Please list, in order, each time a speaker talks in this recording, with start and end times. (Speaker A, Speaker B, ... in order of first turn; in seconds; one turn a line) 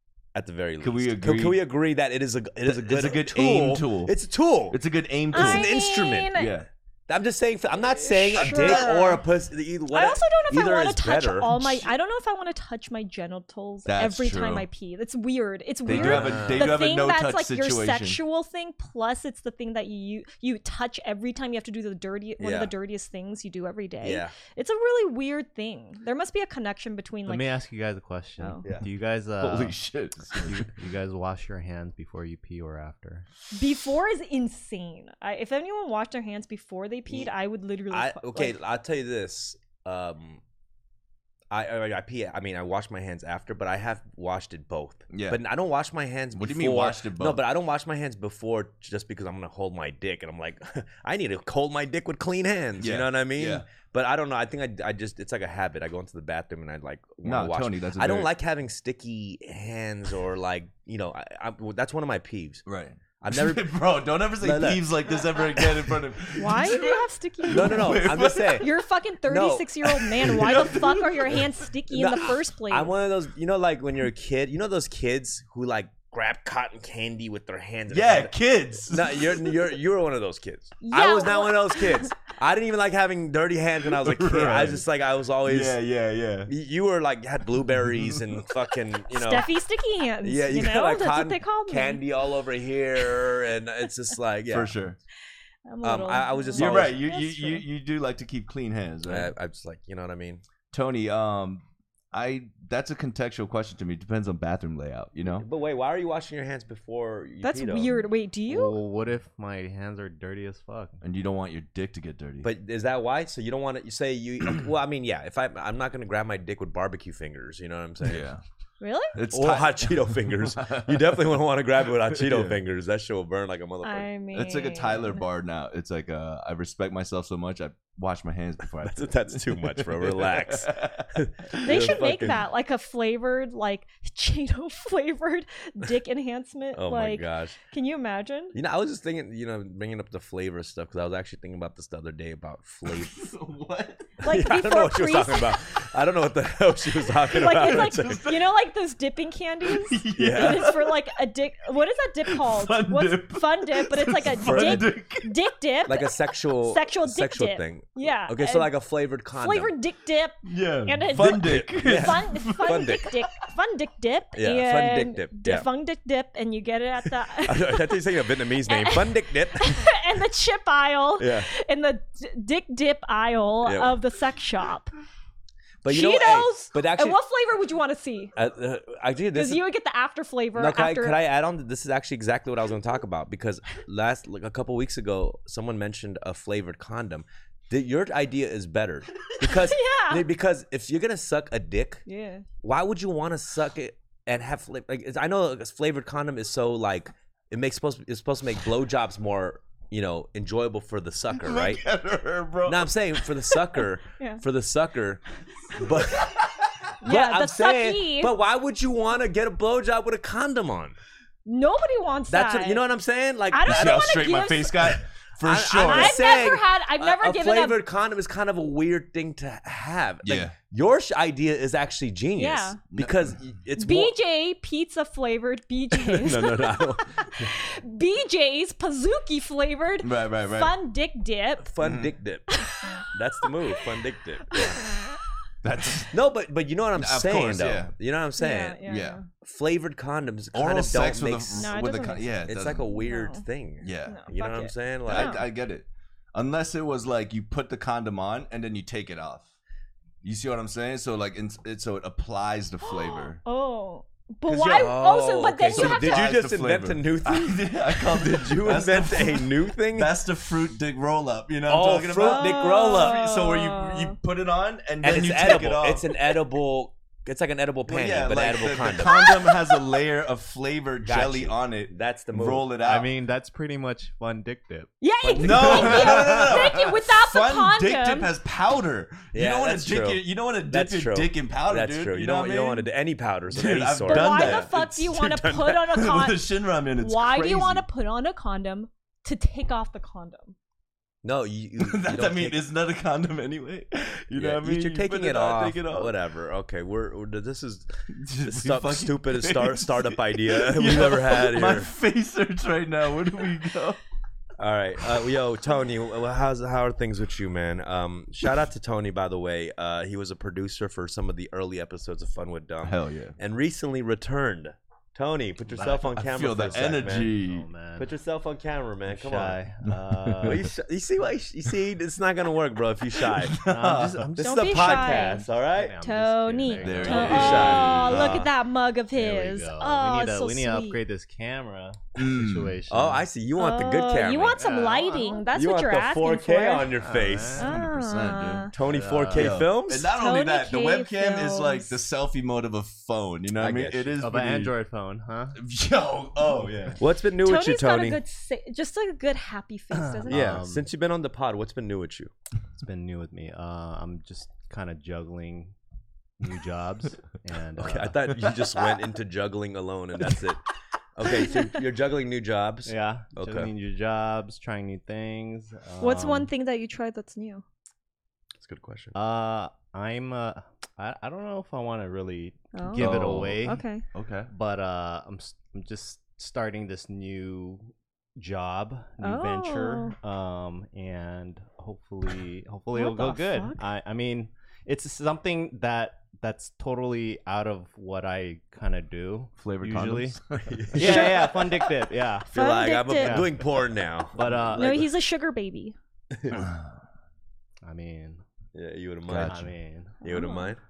Speaker A: 0.3-4.8
Speaker B: 0.8-1.6
Speaker B: 2.6-4.1
Speaker B: 4.7-5.7
Speaker A: 5.3-6.4
Speaker C: 5.3-6.5
Speaker B: 6.3-6.7
Speaker A: 7.1-11.9
Speaker C: 8.0-9.2
Speaker B: 8.3-9.1
Speaker C: 9.9-27.5
Speaker B: 13.8-14.7
Speaker B: 15.8-18.2
Speaker A: 15.9-16.8
Speaker A: 22.4-22.7
Speaker A: 24.0-24.3
Speaker D: 27.2-33.3
Speaker C: 28.4-28.6
Speaker B: 28.7-30.7
Speaker C: 33.5-38.5
Speaker A: 37.9-40.4
Speaker A: 41.5-62.6
Speaker B: 45.1-45.4
Speaker B: 46.3-47.4
Speaker B: 52.8-53.6
Speaker B: 57.2-58.3
Speaker B: 62.6-68.7
Speaker A: 63.2-63.7
Speaker A: 64.4-66.0
Speaker C: 66.4-72.9
Speaker A: 67.5-68.7
Speaker A: 69.3-70.7
Speaker B: 69.9-71.5
Speaker A: 72.0-85.8
Speaker B: 77.9-79.7
Speaker C: 80.8-82.1
Speaker B: 83.8-84.8
Speaker B: 85.4-86.5
Speaker A: 86.5-89.5
Speaker B: 87.6-88.5
Speaker C: 89.1-92.0
Speaker A: 90.2-94.7
Speaker B: 94.5-95.0
Speaker C: 95.7-97.7
Speaker A: 95.8-97.0
Speaker B: 96.5-99.3
Speaker A: 99.0-100.4
Speaker B: 100.7-105.5
Speaker A: 105.2-107.9
Speaker C: 107.4-108.8
Speaker D: 108.5-111.0
Speaker B: 111.0-112.5
Speaker A: 112.4-118.3
Speaker B: 118.0-118.4
Speaker C: 118.8-119.1
Speaker B: 119.1-121.2
Speaker A: 119.3-124.1
Speaker B: 122.1-122.6
Speaker C: 123.8-125.2
Speaker B: 124.3-132.1
Speaker A: 128.8-132.4
Speaker C: 131.6-138.5
Speaker A: 136.7-137.6
Speaker A: 138.5-143.2
Speaker B: 142.8-144.2
Speaker A: 144.2-148.2
Speaker C: 144.2-145.6
Speaker B: 147.3-148.4
Speaker C: 147.3-158.7
Speaker B: 149.7-151.1
Speaker A: 150.2-150.7
Speaker B: 152.3-155.3
Speaker A: 155.9-159.7
Speaker C: 159.4-168.0
Speaker B: 160.4-163.1
Speaker A: 161.1-163.1
Speaker A: 164.3-165.7
Speaker A: 167.4-169.8
Speaker C: 168.7-174.9
Speaker A: 171.2-171.5
Speaker A: 173.6-173.9
Speaker A: 175.8-177.2
Speaker C: 175.8-178.3
Speaker A: 178.3-179.6
Speaker C: 179.3-181.2
Speaker A: 180.5-192.0
Speaker C: 189.5-190.2
Speaker C: 192.1-192.4
Speaker A: 192.6-201.8
Speaker B: 201.4-203.4
Speaker A: 202.7-205.2
Speaker A: 205.7-206.5
Speaker B: 205.9-206.5
Speaker C: 207.0-208.3
Speaker A: 207.0-211.0
Speaker C: 211.4-212.8
Speaker A: 212.3-224.1
Speaker C: 213.5-214.8
Speaker B: 213.6-216.4
Speaker C: 215.8-217.8
Speaker B: 220.2-220.5
Speaker C: 222.4-222.8
Speaker B: 222.9-223.4
Speaker C: 223.8-231.7
Speaker A: 225.9-227.1
Speaker B: 230.0-230.7
Speaker A: 231.6-232.5
Speaker B: 231.8-232.1
Speaker C: 232.5-233.8
Speaker A: 233.1-234.8
Speaker B: 235.6-236.2
Speaker A: 236.1-241.8
Speaker B: 236.9-237.9
Speaker C: 238.4-239.3
Speaker B: 238.8-239.2
Speaker B: 240.5-242.9
Speaker C: 241.6-243.4
Speaker A: 242.5-245.4
Speaker B: 243.8-244.2
Speaker C: 244.1-245.4
Speaker B: 245.0-249.5
Speaker B: 250.2-253.4
Speaker C: 252.8-256.3
Speaker B: 254.5-255.0
Speaker A: 254.7-260.2
Speaker B: 255.7-266.1
Speaker A: 261.7-263.3
Speaker C: 262.2-264.2
Speaker A: 265.0-269.2
Speaker B: 267.9-273.1
Speaker C: 269.0-269.9
Speaker A: 271.0-272.7
Speaker D: 272.8-276.4
Speaker C: 275.0-278.3
Speaker B: 275.4-282.9
Speaker A: 275.7-276.2
Speaker A: 279.3-286.0
Speaker B: 283.5-285.0
Speaker C: 284.1-286.4
Speaker B: 285.9-287.8
Speaker C: 287.0-290.6
Speaker A: 291.2-292.6
Speaker B: 291.8-296.1
Speaker A: 294.3-297.9
Speaker B: 298.1-304.0
Speaker A: 298.4-301.9
Speaker A: 304.6-317.3
Speaker B: 312.8-313.4
Speaker D: 315.7-318.1
Speaker B: 316.1-317.7
Speaker A: 318.0-319.6
Speaker D: 319.1-320.7
Speaker B: 319.9-320.6
Speaker A: 320.4-323.6
Speaker B: 323.2-324.3
Speaker D: 323.6-328.2
Speaker A: 324.3-326.0
Speaker C: 324.4-325.4
Speaker C: 326.0-331.0
Speaker B: 326.8-328.4
Speaker A: 327.0-328.5
Speaker D: 329.1-333.2
Speaker B: 332.2-332.8
Speaker A: 332.9-334.6
Speaker C: 333.6-336.9
Speaker D: 334.5-335.5
Speaker A: 335.5-337.6
Speaker D: 336.9-337.7
Speaker C: 337.6-338.7
Speaker B: 337.6-338.7
Speaker A: 338.7-340.1
Speaker D: 338.8-339.7
Speaker B: 339.3-344.7
Speaker C: 340.0-342.0
Speaker A: 343.6-344.1
Speaker D: 344.2-345.6
Speaker B: 345.5-347.0
Speaker D: 346.4-347.0
Speaker A: 347.0-348.2
Speaker C: 347.4-350.4
Speaker D: 350.2-350.9
Speaker A: 350.3-352.3
Speaker D: 352.8-355.7
Speaker D: 356.4-358.2
Speaker A: 357.8-363.7
Speaker D: 362.9-366.5
Speaker C: 366.0-367.6
Speaker A: 368.6-369.1
Speaker D: 369.1-373.8
Speaker C: 372.7-374.0
Speaker B: 372.9-374.5
Speaker D: 374.5-390.4
Speaker C: 379.2-380.1
Speaker C: 382.9-383.8
Speaker B: 389.6-391.3
Speaker A: 390.6-392.0
Speaker D: 390.9-392.5
Speaker C: 391.0-391.6
Speaker C: 392.5-393.4
Speaker A: 392.5-395.1
Speaker D: 393.2-393.6
Speaker D: 394.3-395.0
Speaker C: 394.7-396.0
Speaker A: 396.3-396.6
Speaker B: 396.5-397.0
Speaker D: 397.8-398.4
Speaker A: 398.7-399.6
Speaker B: 399.2-399.7
Speaker D: 399.4-400.2
Speaker C: 400.2-400.7
Speaker A: 400.2-400.8